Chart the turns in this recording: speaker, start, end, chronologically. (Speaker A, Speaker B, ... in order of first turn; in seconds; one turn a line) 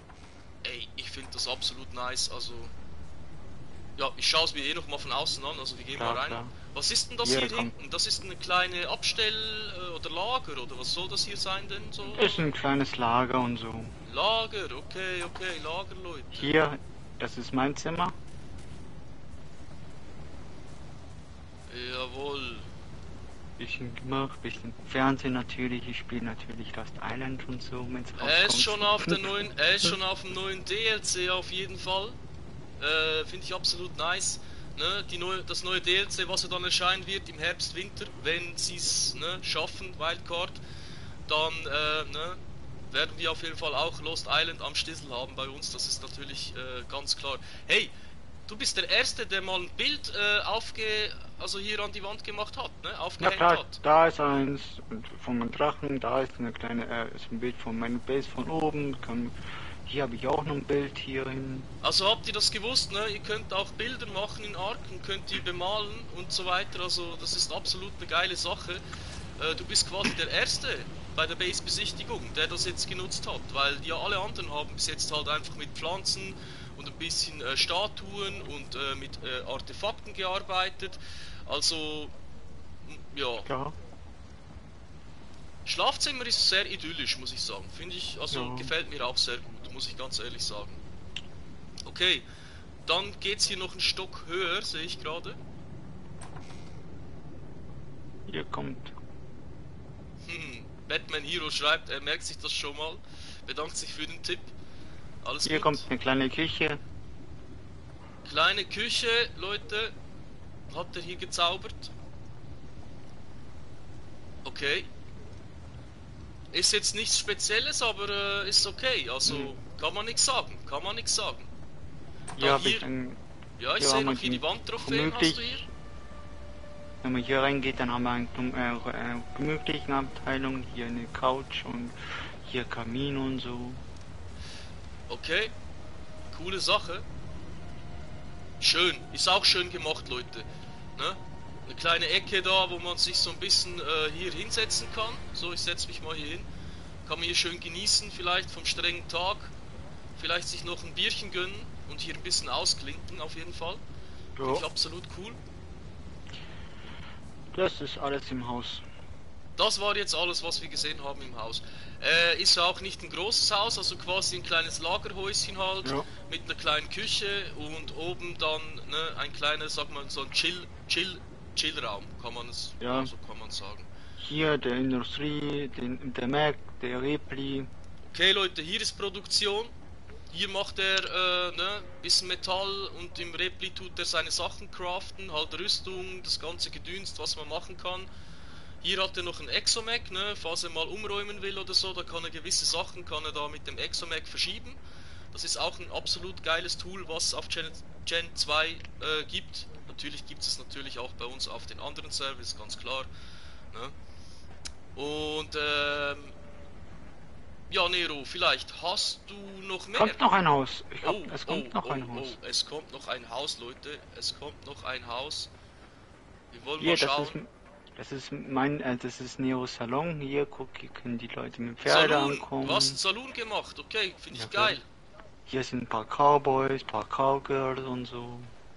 Speaker A: 0.6-2.7
Speaker A: 4.0-12.4
Speaker B: 5.9-6.5
Speaker B: 7.2-7.7
Speaker B: 12.0-13.9
Speaker A: 14.1-16.5
Speaker B: 16.3-18.2
Speaker A: 21.7-22.7
Speaker B: 23.6-29.9
Speaker A: 28.2-32.2
Speaker A: 32.8-40.6
Speaker A: 41.3-42.4
Speaker A: 42.9-47.9
Speaker A: 48.5-53.8
Speaker B: 53.2-61.7
Speaker A: 61.8-68.8
Speaker A: 69.4-82.1
Speaker A: 82.8-83.5
Speaker B: 83.4-83.8
Speaker A: 85.6-90.8
Speaker B: 88.3-88.7
Speaker A: 91.8-92.2
Speaker A: 92.8-95.4
Speaker B: 98.3-98.9
Speaker A: 100.2-104.5
Speaker A: 105.2-105.8
Speaker B: 105.4-106.8
Speaker A: 108.2-109.9
Speaker A: 110.7-111.9
Speaker A: 114.4-114.9
Speaker A: 116.5-121.5
Speaker B: 119.2-119.5
Speaker B: 122.3-123.2
Speaker A: 122.4-122.8
Speaker A: 123.6-125.6
Speaker B: 123.8-125.7
Speaker B: 127.0-133.8
Speaker A: 135.1-135.5
Speaker A: 136.3-137.1
Speaker A: 138.6-146.5
Speaker A: 147.0-149.5
Speaker A: 150.2-153.8
Speaker B: 154.4-154.7
Speaker A: 154.4-155.4
Speaker B: 157.5-158.8
Speaker A: 159.6-173.9
Speaker B: 172.8-173.1
Speaker B: 174.2-177.7
Speaker A: 178.1-179.7
Speaker A: 180.3-188.1
Speaker A: 188.8-194.8
Speaker A: 195.3-203.1
Speaker A: 204.9-206.3
Speaker A: 207.7-210.3
Speaker B: 209.9-212.3
Speaker A: 211.0-215.5
Speaker A: 216.5-217.4
Speaker B: 216.8-223.0
Speaker A: 221.8-224.8
Speaker B: 224.3-224.8
Speaker B: 225.4-228.5